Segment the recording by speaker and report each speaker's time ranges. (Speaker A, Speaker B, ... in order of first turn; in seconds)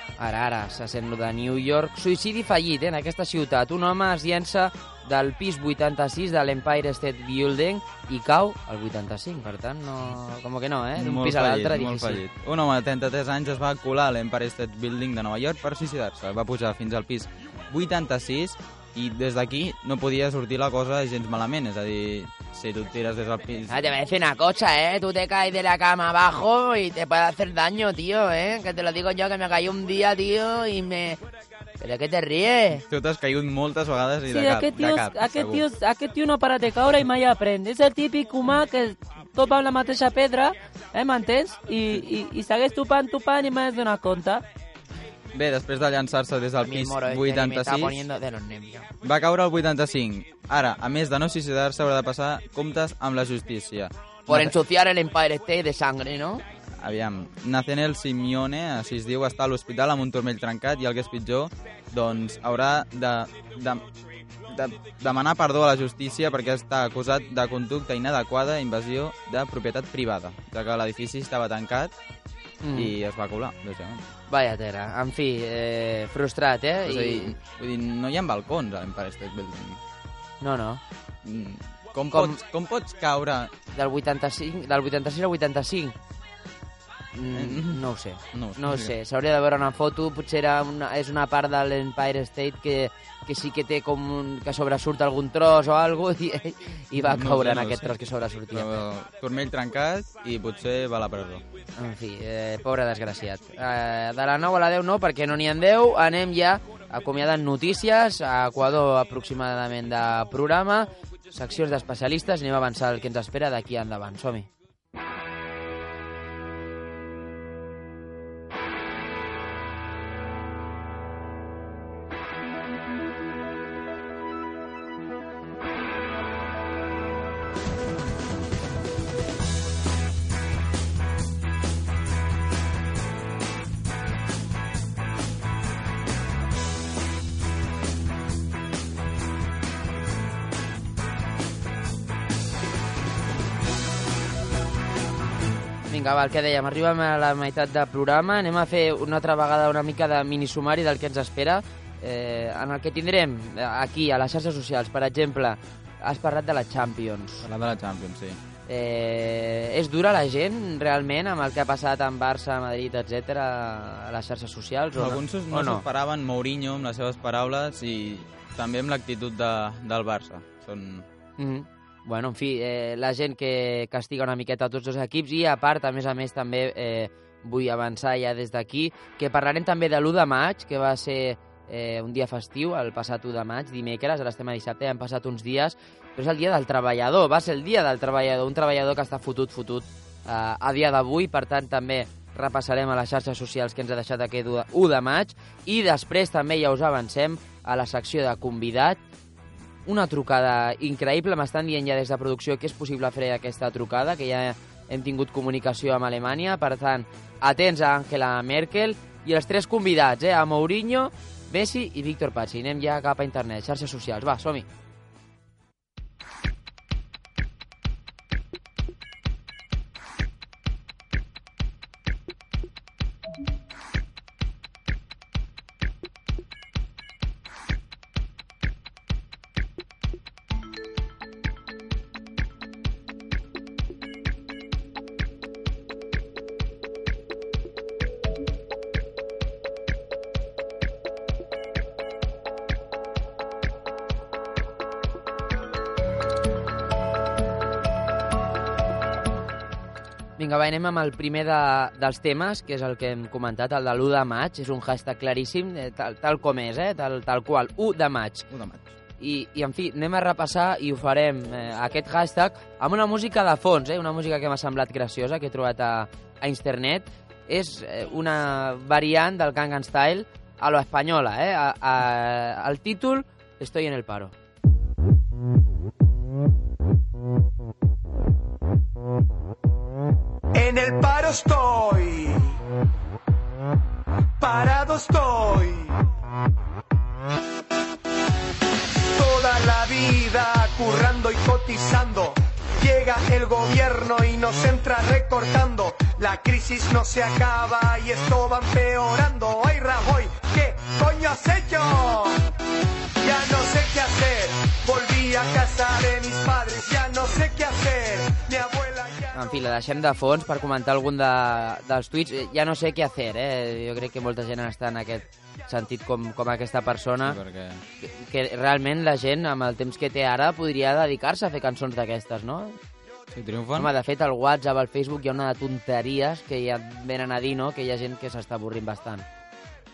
Speaker A: 0.2-12.2, 72.6-72.9, 74.3-77.3, 80.4-80.8, 83.7-86.0, 87.1-98.7, 101.8-114.5, 145.9-157.5, 158.7-165.8, 171.4-199.0, 199.9-214.7, 250.4-258.5, 259.2-274.3, 309.4-317.4, 318.0-322.8, 323.8-329.2
Speaker B: 11.0-23.9, 32.9-35.6, 45.3-48.1, 49.0-54.5, 56.7-63.9, 64.5-72.0, 72.7-74.1, 76.8-79.8, 81.2-83.5, 87.3-88.9, 97.0-98.0, 98.5-101.5, 157.4-158.4, 164.9-171.1, 258.5-258.9, 317.2-317.8, 323.3-323.9
Speaker C: 23.7-31.2, 31.8-32.8, 46.6-48.9, 54.3-56.4
Speaker D: 34.3-44.4
Speaker E: 280.6-282.6, 284.4-286.0, 289.1-302.4, 303.2-309.4